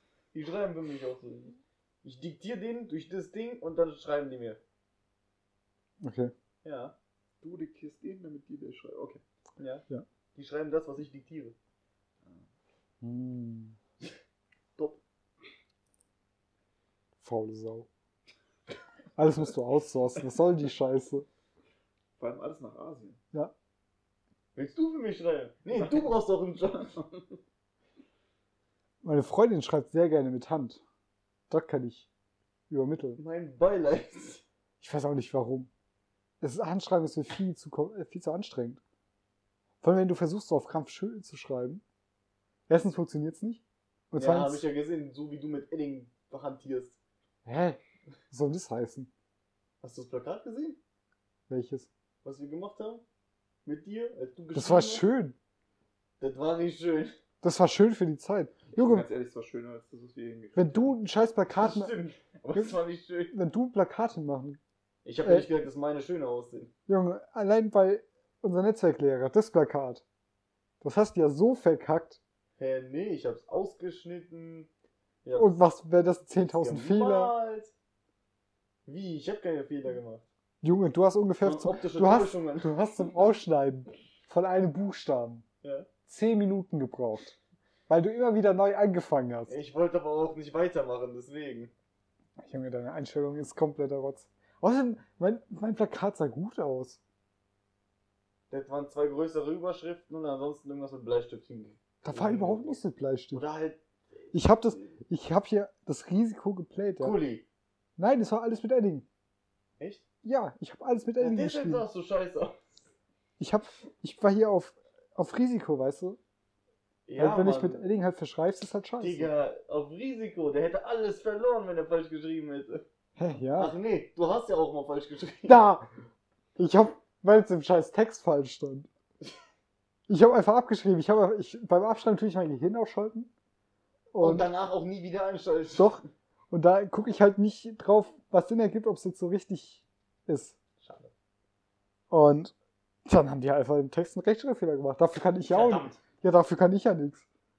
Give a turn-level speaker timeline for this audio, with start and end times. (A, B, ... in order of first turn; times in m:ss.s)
0:00.3-0:04.6 A
0:06.0-0:06.3 B
0:06.6-0:06.9 A
0:07.4-0:09.2 C
0:09.6-0:11.5 A
0:13.0-0:13.8 B
0:17.2-0:17.9 B
0:19.2-0:21.2 B
0:22.2-0:23.2 C
0:24.5-0:27.0 A
0:29.0-0:30.8 B
0:31.5-0:32.1 B
0:32.7-0:33.2 B
0:33.2-0:34.4 A
0:34.8-0:35.7 B
0:36.4-0:38.8 B
0:39.8-0:41.8 B
0:42.7-0:44.6 B
0:44.1-0:47.0 A
0:47.4-0:47.8 B
0:48.3-0:49.1 B
0:49.8-0:50.8 A
0:51.5-0:51.9 B
0:52.2-0:53.0 A
0:53.6-0:55.0 A
0:54.5-0:55.4 B
0:56.2-0:57.2 A
0:57.4-0:59.1 B
0:58.7-1:00.9 C
1:00.6-1:01.9 B
1:01.6-1:03.3 A
1:03.3-1:04.6 B
1:05.0-1:06.7 A
1:05.2-1:05.5 B
1:06.9-1:10.0 B
1:10.8-1:12.2 B
1:12.6-1:14.7 A
1:15.2-1:15.6 A
1:15.3-1:17.3 B
1:16.4-1:17.7 A
1:18.8-1:20.2 A
1:20.6-1:25.4 B
1:21.4-1:22.7 A
1:25.6-1:25.9 A
1:26.1-1:27.4 B
1:27.9-1:29.6 B
1:29.5-1:31.7 A
1:32.4-1:37.0 B
1:38.5-1:42.8 A
1:42.0-1:43.4 B
1:43.3-1:43.8 A
1:44.3-1:47.2 B
1:47.0-1:47.4 A
1:48.0-1:49.0 B
1:49.8-1:50.0 A
1:50.2-1:51.8 B
1:51.2-1:52.8 A
1:53.4-1:56.2 B
1:57.0-1:57.8 A
1:57.1-1:59.3 B
1:59.0-2:02.8 A
2:03.2-2:03.7 B
2:03.5-2:05.6 A
2:05.4-2:05.9 B
2:06.6-2:08.9 B
2:10.1-2:13.3 B
2:14.1-2:14.5 B
2:14.2-2:16.0 A
2:15.8-2:20.6 B
2:20.8-2:21.1 A
2:22.1-2:22.5 B
2:23.0-2:27.2 B
2:25.5-2:26.0 A